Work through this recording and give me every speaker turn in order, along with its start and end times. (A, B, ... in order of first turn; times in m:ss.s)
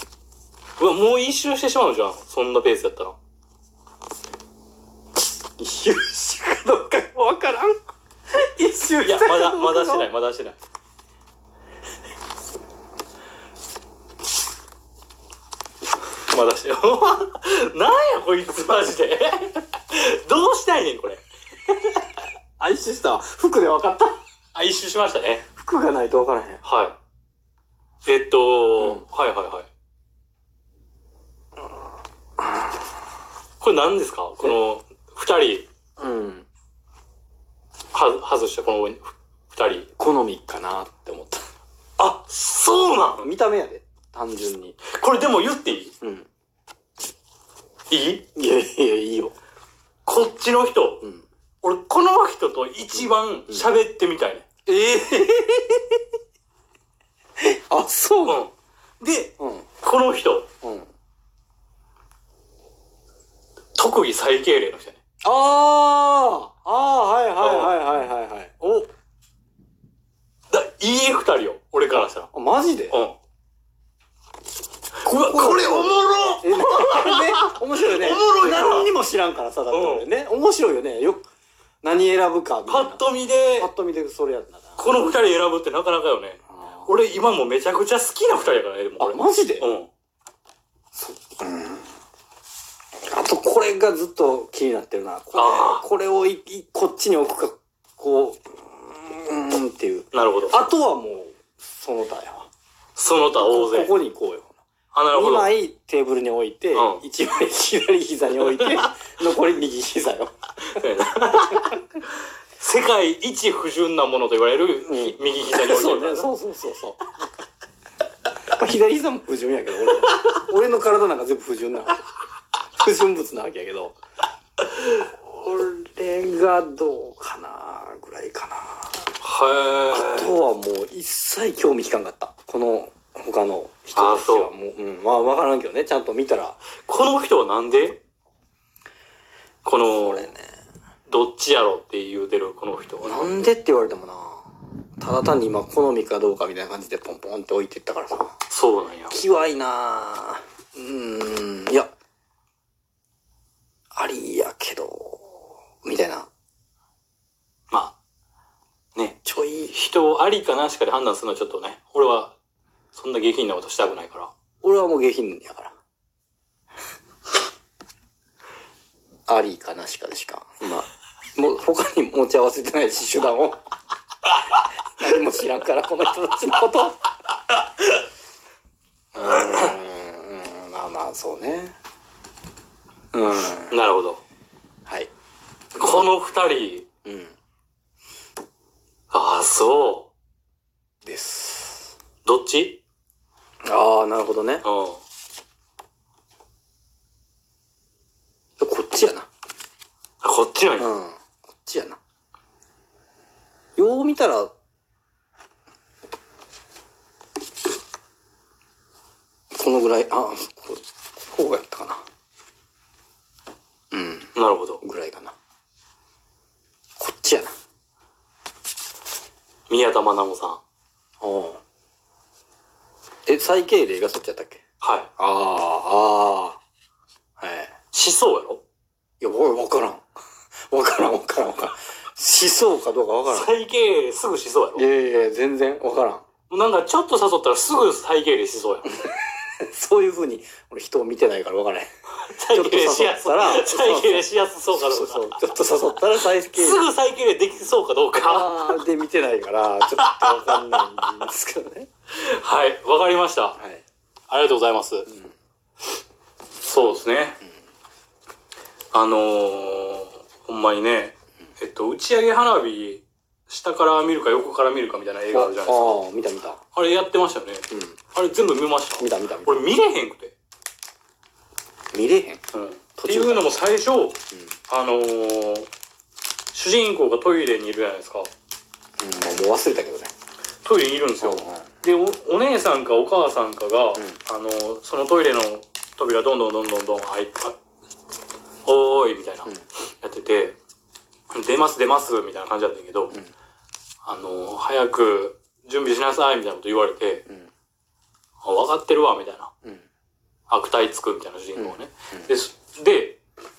0:00.8-0:03.2 A
0:05.6-0:07.8 B
0:08.3-0:10.1 B
0:09.0-0:10.6 A
0:16.2-0:21.7 A
0:22.6-0:24.2 B
0:24.6-0:25.4 A
0:25.6-0:26.6 B
0:26.6-0:27.0 A
0:28.0-0:29.7 A
0:28.8-0:29.0 B
0:32.4-0:32.7 B
0:33.6-0:35.7 A
0:36.0-0:36.5 B
0:37.9-0:39.9 A
0:40.0-0:41.4 B
0:42.0-0:43.3 A
0:43.2-0:44.8 B
0:44.8-0:45.9 A
0:46.0-0:46.3 B
0:47.9-0:48.2 A
0:48.4-0:49.4 B
0:50.1-0:51.0 A
0:51.6-0:54.4 A
0:53.0-0:53.8 B
0:54.7-0:56.0 B
0:57.4-0:58.4 B
0:58.2-1:00.5 A
0:59.4-0:59.7 B
1:00.6-1:00.9 B
1:03.8-1:05.0 A
1:05.2-1:08.9 B
1:07.4-1:07.8 A
1:10.5-1:12.3 A
1:12.3-1:13.0 B
1:12.9-1:13.2 A
1:15.0-1:18.9 A
1:15.0-1:21.2 B
1:19.7-1:20.1 A
1:21.8-1:24.8 B
1:22.7-1:23.7 A
1:24.8-1:29.9 A
1:26.5-1:26.9 B
1:29.0-1:29.7 B
1:31.0-1:31.9 B
1:33.1-1:42.5 B
1:35.3-1:35.8 A
1:40.1-1:40.7 A
1:43.0-1:44.0 A
1:43.4-1:44.6 B
1:44.9-1:45.6 A
1:45.1-1:51.7 B
1:46.7-1:47.0 A
1:48.5-1:48.8 A
1:50.7-1:56.3 A
1:54.8-1:57.0 B
1:58.5-2:02.0 B
2:02.8-2:04.0 B
2:05.0-2:08.9 B
2:09.2-2:10.3 A
2:09.9-2:16.6 B
2:14.0-2:14.5 A
2:16.8-2:18.0 A
2:19.6-2:20.3 A
2:19.8-2:20.5 B
2:21.1-2:23.5 A
2:23.0-2:28.4 B
2:28.5-2:29.2 A
2:29.1-2:31.9 B
2:34.0-2:36.3 B
2:37.7-2:38.0 A
2:39.2-2:39.8 B
2:39.7-2:42.3 A
2:42.9-2:44.3 A
2:44.6-2:45.7 B
2:49.3-2:53.6 B
2:55.0-2:57.0 B
2:59.1-3:01.8 B
3:03.1-3:03.8 B
3:03.7-3:04.2 A
3:04.9-3:05.1 B
3:05.8-3:06.1 B
3:05.8-3:06.9 A
3:07.0-3:07.3 B
3:09.1-3:10.1 A
3:11.0-3:11.9 B
3:12.2-3:12.8 A
3:13.7-3:14.6 B
3:14.6-3:15.0 A
3:18.6-3:19.3 B
3:20.2-3:20.9 A
3:20.8-3:22.0 B
3:23.8-3:24.5 B
3:29.5-3:32.0 B
3:33.9-3:35.3 B
3:34.4-3:34.8 A
3:37.0-3:37.5 B
3:39.7-3:40.6 A
3:41.2-3:41.6 B
3:43.3-3:44.6 B
3:44.8-3:45.1 A
3:45.2-3:46.6 B
3:47.4-3:47.7 B
3:47.9-3:48.6 A
3:49.2-3:50.0 B
3:50.7-3:53.5 B
3:53.3-3:54.8 A
3:54.8-3:56.2 B
3:56.5-3:58.9 A
3:58.9-4:01.9 B
4:02.2-4:05.3 A
4:02.5-4:06.9 B
4:06.4-4:08.8 A
4:08.2-4:11.9 B
4:10.0-4:11.1 A
4:12.1-4:13.6 A
4:13.6-4:13.8 B
4:14.3-4:15.1 A
4:16.6-4:17.4 A
4:18.9-4:26.0 A
4:25.3-4:26.6 B
4:26.7-4:30.4 A
4:27.7-4:28.0 B
4:29.0-4:29.7 B
4:31.9-4:32.4 B
4:32.5-4:35.7 A
4:33.0-4:33.5 B
4:36.5-4:38.3 A
4:39.0-4:40.1 B
4:40.6-4:47.6 A
4:41.2-4:41.7 B
4:48.6-4:50.6 A
4:51.3-4:53.2 A
4:54.0-4:57.2 A
4:58.4-4:59.5 A
5:00.5-5:03.2 A
5:01.6-5:02.3 B